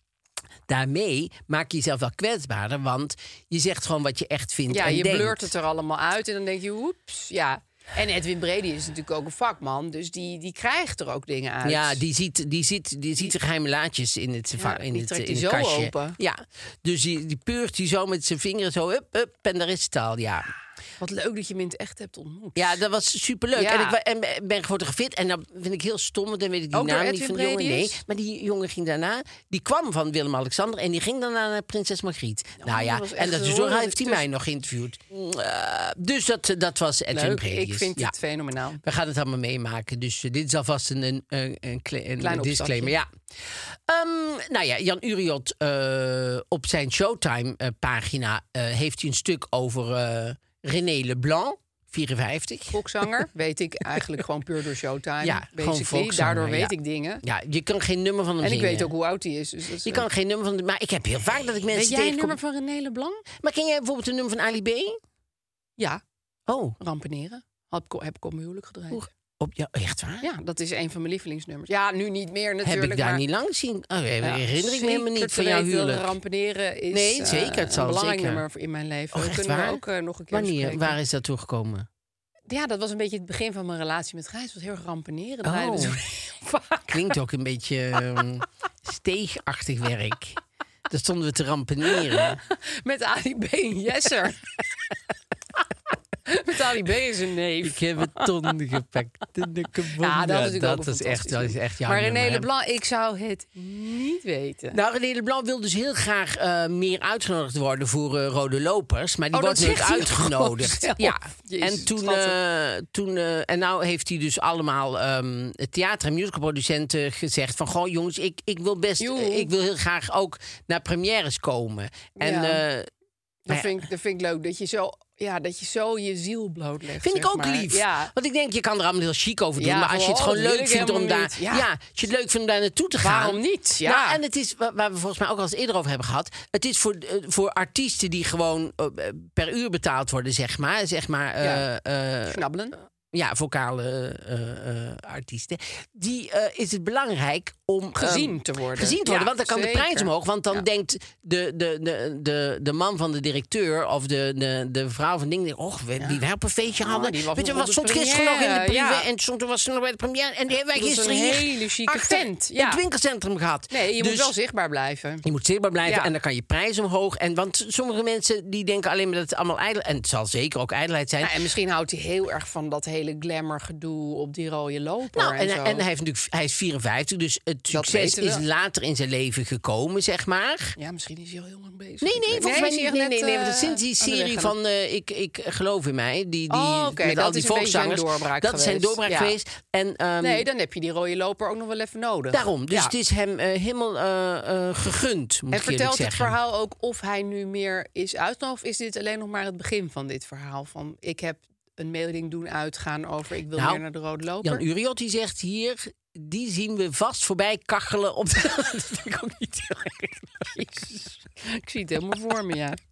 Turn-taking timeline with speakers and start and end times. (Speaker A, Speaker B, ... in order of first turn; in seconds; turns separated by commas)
Speaker A: 0.7-5.5, Speaker B: 4.7-12.0, Speaker A: 11.6-20.5, Speaker B: 14.6-16.2, Speaker B: 21.0-22.8, Speaker A: 22.6-38.1, Speaker B: 23.6-24.0, Speaker B: 26.7-28.0, Speaker B: 32.6-34.2, Speaker B: 37.1-38.8, Speaker A: 38.8-52.8, Speaker B: 42.2-42.9, Speaker B: 52.7-57.2, Speaker A: 55.2-58.9, Speaker B: 58.4-60.1, Speaker A: 59.9-62.4, Speaker B: 61.7-63.2, Speaker A: 63.4-65.0, Speaker A: 66.5-66.8, Speaker B: 66.8-69.1, Speaker A: 68.9-70.3, Speaker B: 70.2-73.2, Speaker A: 72.6-76.1, Speaker B: 74.2-81.0, Speaker A: 76.9-78.4, Speaker A: 79.1-81.9, Speaker B: 82.5-87.2, Speaker A: 85.5-86.0, Speaker A: 86.9-90.4, Speaker A: 90.9-92.4, Speaker B: 91.9-94.5, Speaker B: 96.3-98.5, Speaker A: 97.6-102.5, Speaker B: 100.0-104.8, Speaker A: 104.7-122.9, Speaker B: 109.3-112.4, Speaker B: 119.0-119.5, Speaker B: 122.2-122.6, Speaker B: 123.5-128.1, Speaker A: 123.5-123.8, Speaker A: 127.0-142.4, Speaker B: 129.6-131.7, Speaker B: 133.0-134.2, Speaker B: 142.3-142.8, Speaker A: 143.1-164.3, Speaker B: 147.9-150.7, Speaker B: 156.8-159.1, Speaker B: 160.7-162.8, Speaker B: 163.7-165.2, Speaker A: 165.2-171.4, Speaker B: 165.8-166.1, Speaker B: 171.2-175.8, Speaker A: 175.2-180.8, Speaker B: 177.7-178.4, Speaker B: 180.8-184.5, Speaker A: 182.0-190.4, Speaker B: 186.5-189.3, Speaker B: 190.2-192.9, Speaker A: 192.3-196.3, Speaker B: 195.5-204.6, Speaker A: 203.6-203.8, Speaker A: 204.4-211.0, Speaker B: 211.4-212.8